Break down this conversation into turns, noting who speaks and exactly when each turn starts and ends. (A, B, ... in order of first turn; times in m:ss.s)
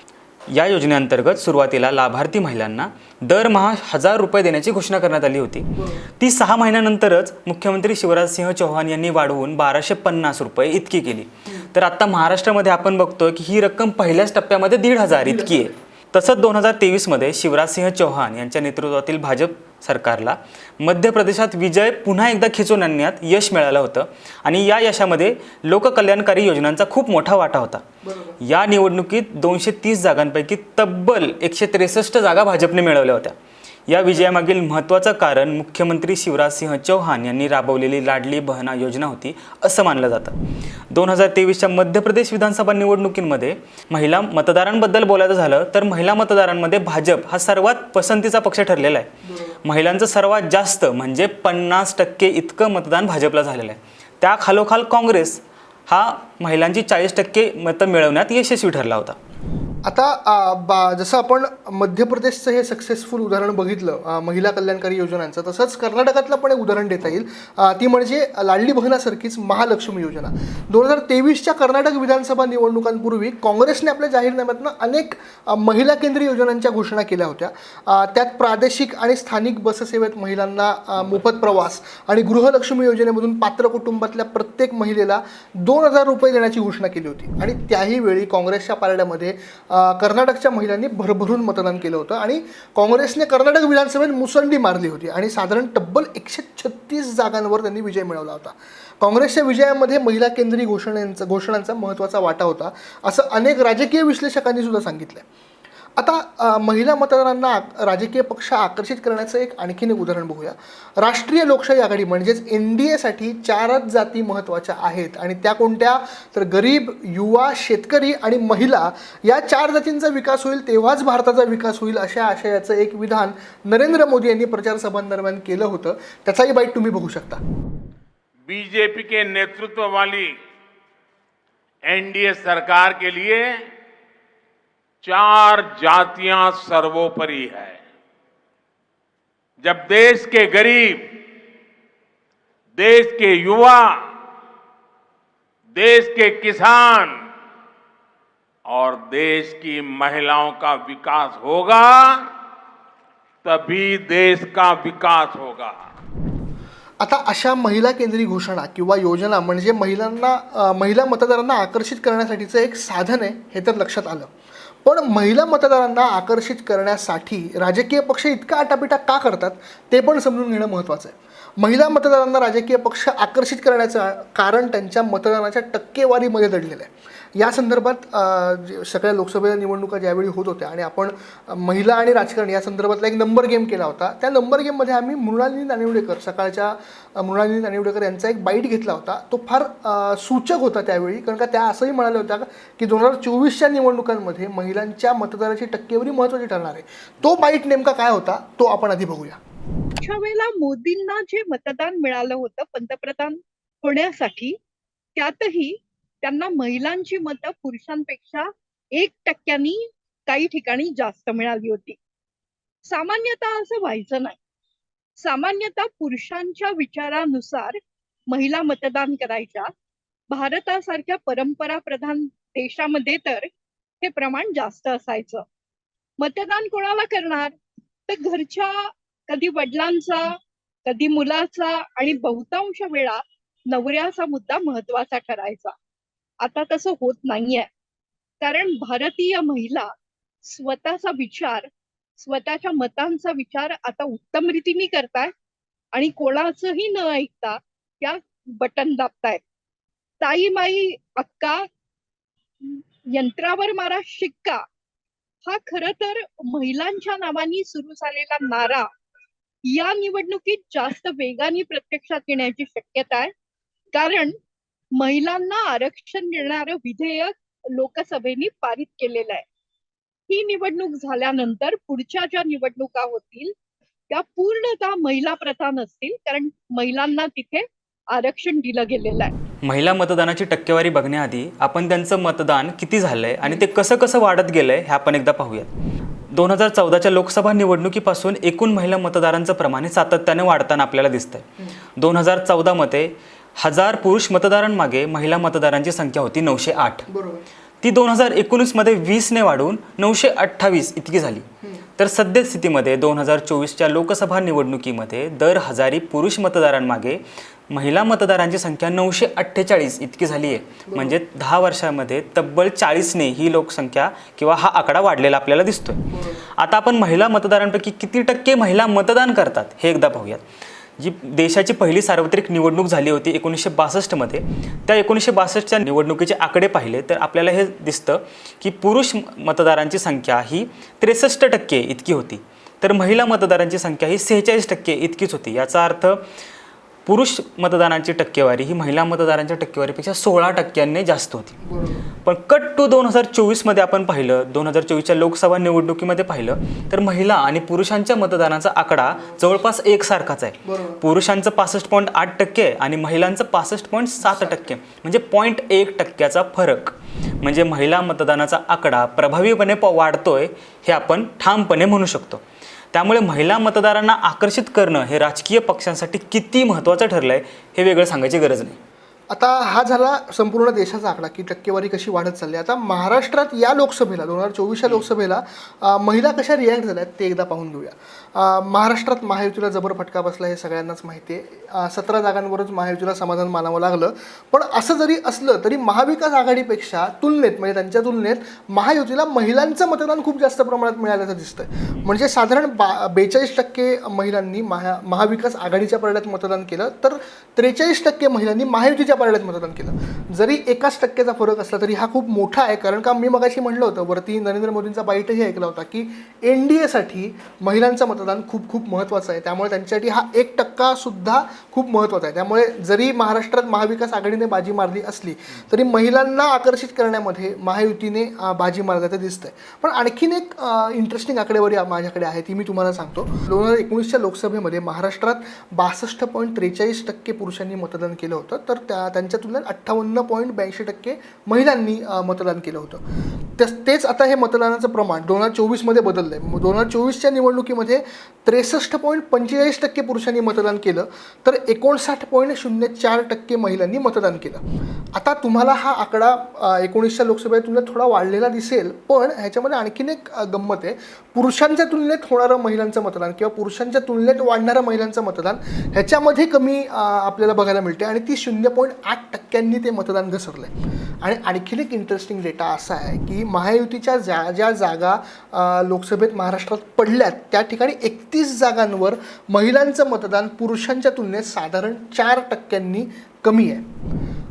0:00.5-0:27.8 A
0:05.8-0:06.1 B
0:15.1-0:15.7 B
0:28.0-0:28.4 B
0:28.4-0:33.3 A
0:33.9-0:40.3 A
0:40.9-0:49.1 A
0:49.2-0:49.6 B
0:49.6-0:59.2 A
0:59.8-1:45.2 B
1:46.0-2:07.4 B
2:08.5-2:10.4 C
2:11.8-2:13.6 C
2:15.0-2:17.8 C
2:19.6-2:21.1 C
2:22.8-2:24.0 C
2:25.7-2:27.1 C
2:28.7-2:32.2 C
2:33.4-2:35.8 C
2:37.0-2:44.3 B
2:44.8-3:19.4 B
3:20.0-3:24.6 D
3:25.2-3:32.0 D
3:32.8-3:34.4 D
3:35.2-3:37.8 D
3:38.3-3:39.7 D
3:40.3-3:43.5 D
3:44.0-3:45.4 D
3:46.2-3:47.5 D
3:48.1-3:50.3 D
3:50.8-3:55.7 D
3:56.4-3:57.7 D
3:58.4-3:59.9 D
4:00.4-4:05.3 D
4:05.9-4:09.4 D
4:10.2-4:11.6 D
4:12.6-4:14.6 D
4:15.4-4:18.8 D
4:19.7-4:23.3 D
4:23.9-4:24.3 D
4:25.0-4:29.4 D
4:30.3-4:33.5 D
4:34.1-4:39.3 D
4:39.6-4:45.7 A
4:46.3-4:57.0 A
4:57.1-4:57.4 B
4:57.8-5:01.4 A
5:02.0-5:20.4 A
5:10.7-5:11.2 B
5:16.1-5:16.5 B
5:21.0-5:36.2 A
5:37.0-5:41.6 A
5:41.6-5:42.1 B
5:42.2-6:02.4 A
5:50.6-5:51.0 B
5:54.2-5:54.7 B
6:02.9-6:08.8 A
6:09.3-7:13.0 B
7:13.6-7:24.6 B
7:25.1-7:40.7 B
7:41.2-7:53.8 B